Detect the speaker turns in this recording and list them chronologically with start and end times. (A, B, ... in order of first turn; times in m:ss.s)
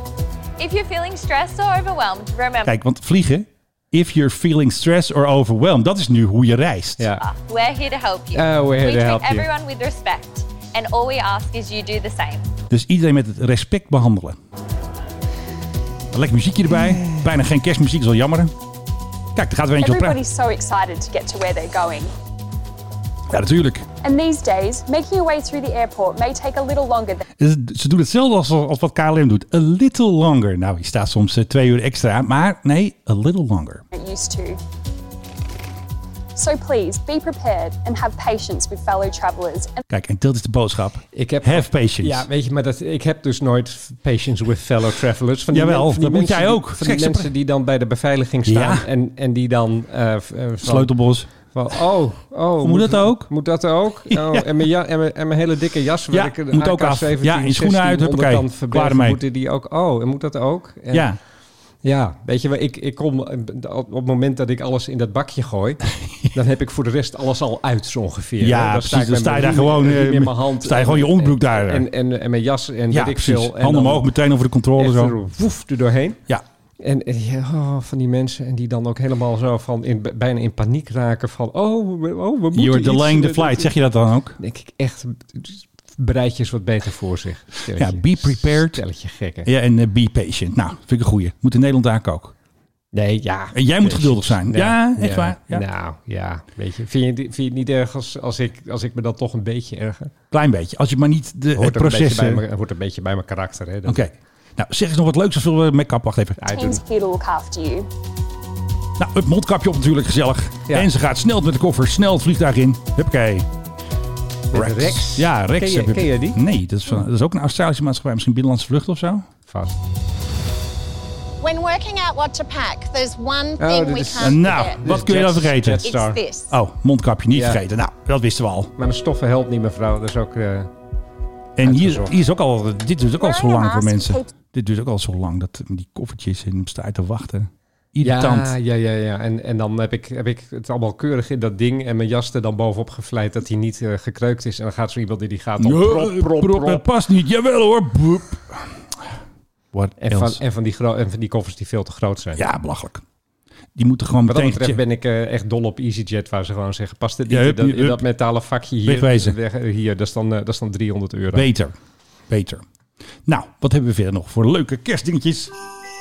0:00.6-0:02.7 A
0:02.6-0:07.1 B
0:07.0-0:07.2 C
0:07.2-0:12.4 A
0:08.3-0:09.5 C
0:12.7-0:14.4 B
0:16.1-0:18.5 B
0:16.7-0:17.3 C
0:19.4-0:20.2 B
0:19.8-0:22.1 D
0:23.3-0:23.9 B
0:24.0-0:27.2 D
0:27.4-0:33.8 B
0:33.9-0:34.6 D
0:36.4-0:39.8 D
0:39.9-0:42.2 B
0:41.1-0:50.9 C
0:45.5-0:47.3 B
0:48.5-0:48.9 B
0:50.6-0:51.3 B
0:51.5-1:01.1 C
0:52.6-0:53.3 B
0:54.1-0:54.5 B
0:56.1-0:59.2 B
1:00.9-1:01.2 B
1:01.8-1:14.1 C
1:08.4-1:11.9 B
1:12.9-1:15.1 B
1:14.8-1:16.2 C
1:16.8-1:23.7 C
1:22.5-1:24.4 B
1:24.4-1:29.5 C
1:27.7-1:28.8 B
1:29.4-1:32.3 B
1:32.9-1:40.1 C
1:33.5-1:35.6 B
1:40.3-1:42.4 B
1:41.6-1:44.0 C
1:43.9-1:46.4 B
1:46.4-1:46.8 C
1:46.5-1:47.9 D
1:49.0-1:53.4 B
1:54.5-1:56.4 C
1:54.5-1:59.3 B
1:59.5-1:59.8 C
2:01.4-2:04.8 E
2:03.6-2:06.2 C
2:04.2-2:05.9 B
2:05.8-2:06.5 E
2:06.5-2:08.7 B
2:07.3-2:07.6 C
2:08.8-2:10.7 C
2:11.6-2:18.5 B
2:11.6-2:12.2 C
2:13.2-2:14.3 E
2:18.0-2:26.9 C
2:25.6-2:29.0 B
2:29.7-2:30.4 B
2:30.0-2:32.4 C
2:32.4-2:33.0 B
2:33.8-2:34.8 B
2:34.3-2:41.5 C
2:37.3-2:38.0 B
2:38.8-2:39.4 B
2:41.3-2:41.8 B
2:42.3-2:42.6 B
2:43.3-2:45.5 B